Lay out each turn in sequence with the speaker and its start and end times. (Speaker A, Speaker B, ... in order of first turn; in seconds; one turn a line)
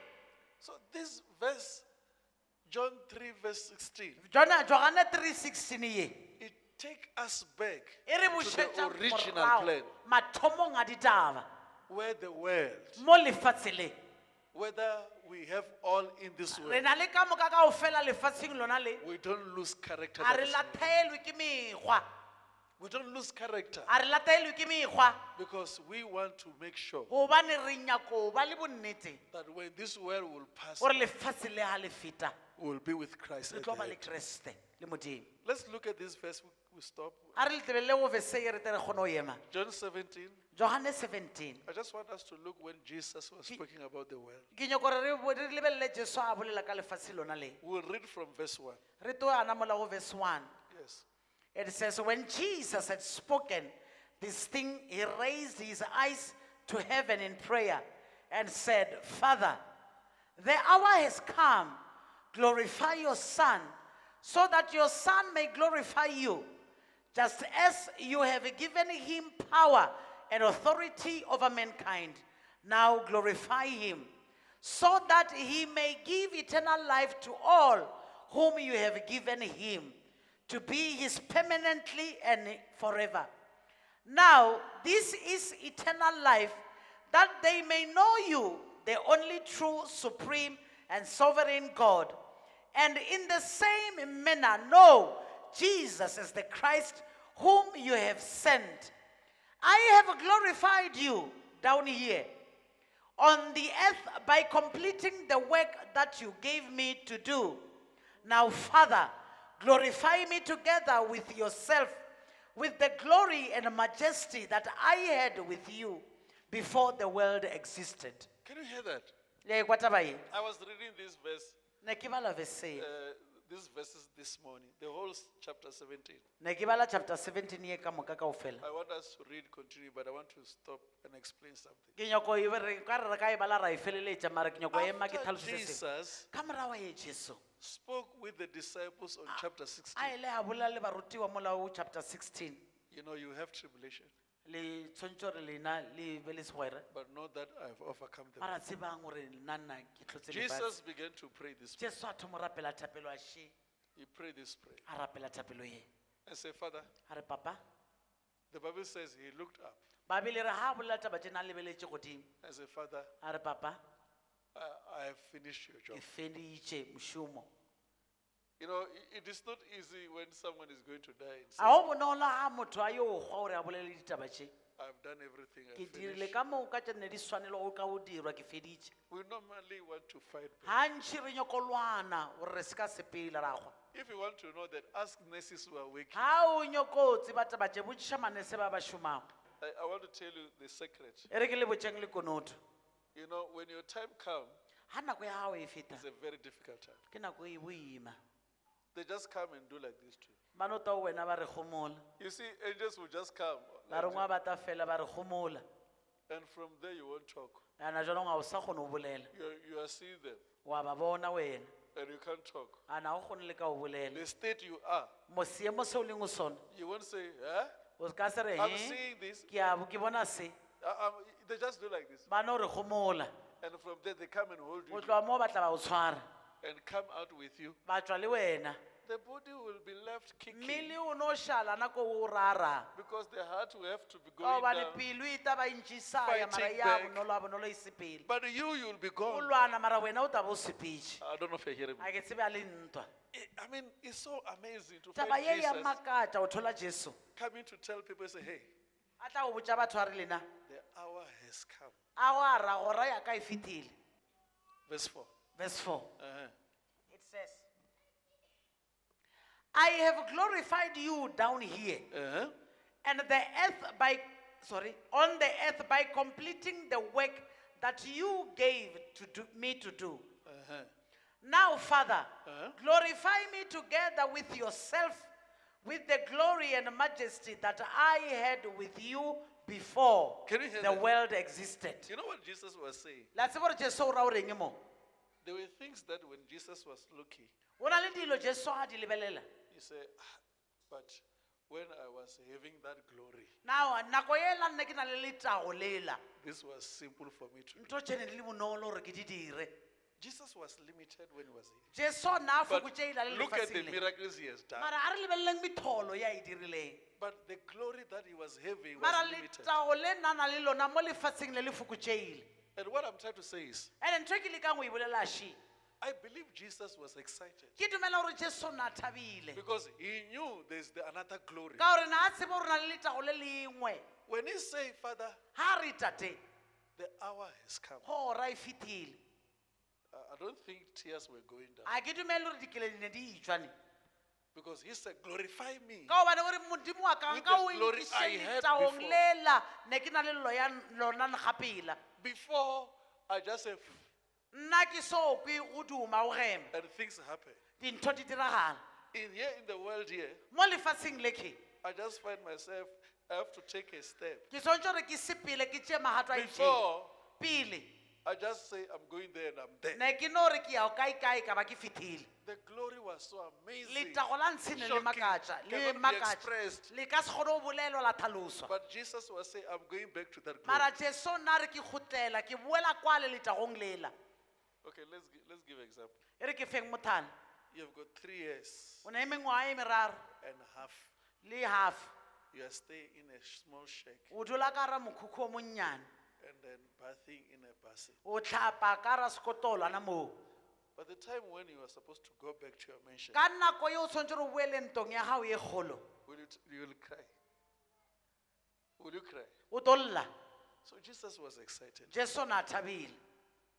Speaker A: 0.6-1.8
Speaker A: 2.7-4.2
Speaker B: 4.2-6.2
Speaker A: 6.4-9.9
Speaker B: 8.1-11.5
Speaker A: 11.9-13.0
Speaker B: 13.0-13.9
Speaker A: 14.5-16.9
Speaker B: 16.5-19.0
Speaker A: 19.0-20.9
Speaker B: 20.2-22.0
Speaker A: 22.8-23.9
Speaker B: 23.9-25.2
Speaker A: 25.4-27.1
Speaker B: 27.1-29.2
Speaker A: 29.3-31.1
Speaker B: 30.8-32.3
Speaker A: 32.6-34.0
Speaker B: 33.5-35.3
Speaker A: 35.4-37.4
Speaker B: 37.4-39.4
Speaker A: 39.5-40.4
Speaker B: 40.5-41.6
Speaker A: 41.6-44.5
Speaker B: 44.5-47.6
Speaker A: 47.6-48.8
Speaker B: 49.0-50.5
Speaker A: 50.7-51.0
Speaker B: 51.5-59.6
Speaker B: 60.4-61.8
Speaker B: 62.3-66.5
Speaker B: 67.1-74.1
Speaker B: 74.6-80.0
Speaker B: 80.5-83.3
Speaker B: 84.0-92.2
Speaker B: 92.7-98.9
Speaker B: 99.6-102.3
Speaker B: 103.2-107.7
Speaker B: 108.2-112.0
Speaker B: 112.5-118.3
Speaker A: 118.4-119.1
Speaker B: 119.4-120.2
Speaker A: 120.3-121.6
Speaker B: 121.8-122.9
Speaker A: 122.7-126.2
Speaker B: 126.4-128.6
Speaker A: 128.6-131.9
Speaker B: 131.9-135.8
Speaker A: 134.7-136.3
Speaker B: 136.3-137.4
Speaker A: 137.6-140.2
Speaker B: 139.9-142.6
Speaker A: 142.9-144.1
Speaker B: 144.4-146.8
Speaker A: 146.9-148.5
Speaker B: 148.4-150.7
Speaker A: 150.3-151.9
Speaker B: 151.8-153.5
Speaker A: 153.9-154.8
Speaker B: 154.9-155.8
Speaker A: 156.2-156.9
Speaker B: 157.1-157.6
Speaker A: 158.5-159.8
Speaker B: 160.1-162.3
Speaker A: 162.4-163.1
Speaker B: 163.2-163.8
Speaker A: 164.5-166.1
Speaker B: 165.9-167.5
Speaker A: 168.6-171.8
Speaker B: 171.6-174.5
Speaker A: 174.8-176.3
Speaker B: 175.7-178.9
Speaker A: 179.1-180.8
Speaker B: 180.7-183.8
Speaker A: 183.9-186.3
Speaker B: 186.1-189.3
Speaker A: 189.6-191.3
Speaker B: 191.3-192.6
Speaker A: 193.1-194.6
Speaker B: 194.9-196.0
Speaker A: 195.9-197.0
Speaker B: 197.1-198.2
Speaker A: 198.9-200.3
Speaker B: 200.5-202.1
Speaker A: 202.2-204.3
Speaker B: 203.9-205.6
Speaker A: 206.3-207.6
Speaker B: 207.8-209.3
Speaker A: 209.3-210.4
Speaker B: 210.6-211.7
Speaker A: 211.9-212.8
Speaker B: 212.9-214.2
Speaker A: 214.1-215.1
Speaker B: 215.3-216.6
Speaker A: 216.7-217.7
Speaker B: 218.0-219.0
Speaker A: 218.6-219.5
Speaker B: 219.5-220.6
Speaker A: 220.8-222.3
Speaker B: 222.3-223.3
Speaker A: 223.6-225.2
Speaker B: 224.9-226.2
Speaker A: 226.6-227.8
Speaker B: 227.8-228.8
Speaker A: 229.0-231.0
Speaker B: 230.5-232.9
Speaker A: 232.9-235.0
Speaker B: 234.4-238.2
Speaker A: 236.2-237.2
Speaker A: 238.2-239.6
Speaker B: 239.2-241.2
Speaker A: 241.2-242.1
Speaker B: 242.0-243.1
Speaker A: 243.3-246.0
Speaker B: 245.2-247.2
Speaker A: 247.3-248.7
Speaker B: 249.2-250.4
Speaker A: 250.7-252.0
Speaker B: 252.2-253.9
Speaker A: 254.9-255.3
Speaker B: 255.6-256.1
Speaker A: 256.2-256.5
Speaker B: 257.1-257.7
Speaker B: 259.7-262.1
Speaker A: 262.1-262.5
Speaker B: 263.0-270.3
Speaker A: 270.4-270.9
Speaker B: 271.4-275.3
Speaker A: 272.4-272.8
Speaker B: 275.8-282.1
Speaker A: 280.5-281.1
Speaker A: 282.1-283.3
Speaker B: 283.3-284.8
Speaker A: 285.4-287.5
Speaker B: 287.8-289.5
Speaker A: 289.7-293.5
Speaker B: 293.6-296.2
Speaker A: 296.4-297.9
Speaker B: 297.8-299.7
Speaker A: 300.2-301.9
Speaker B: 301.9-304.0
Speaker A: 302.7-304.9
Speaker B: 304.8-307.0
Speaker A: 307.2-309.7
Speaker B: 309.0-312.5
Speaker A: 312.8-313.9
Speaker B: 314.0-315.6
Speaker A: 316.0-317.8
Speaker B: 317.8-319.6
Speaker A: 319.5-321.9
Speaker B: 321.8-324.0
Speaker A: 324.3-325.4
Speaker B: 325.5-326.4
Speaker A: 326.9-328.1
Speaker B: 328.0-329.2
Speaker A: 330.1-332.0
Speaker B: 331.9-333.7
Speaker A: 334.5-336.1
Speaker B: 336.1-342.0
Speaker A: 337.3-339.2
Speaker A: 342.2-344.1
Speaker B: 344.5-346.7
Speaker A: 346.7-347.6
Speaker B: 347.8-348.8
Speaker A: 349.1-350.4
Speaker B: 350.5-351.6
Speaker A: 351.8-354.5
Speaker B: 354.5-356.8
Speaker A: 356.3-357.2
Speaker B: 357.4-357.9
Speaker A: 358.2-360.0
Speaker B: 359.9-362.3
Speaker A: 362.4-366.9
Speaker B: 363.9-368.7
Speaker A: 368.7-370.9
Speaker B: 370.6-374.1
Speaker A: 374.8-376.2
Speaker B: 376.4-377.3
Speaker A: 377.7-379.1
Speaker B: 379.0-380.3
Speaker A: 380.4-381.1
Speaker B: 381.4-382.1
Speaker A: 382.5-384.3
Speaker B: 384.3-386.1
Speaker A: 386.4-388.2
Speaker B: 388.2-390.4
Speaker A: 390.9-393.4
Speaker B: 393.3-396.0
Speaker A: 396.2-397.3
Speaker A: 399.0-399.5
Speaker B: 399.7-400.3
Speaker A: 400.8-402.1
Speaker B: 402.1-403.2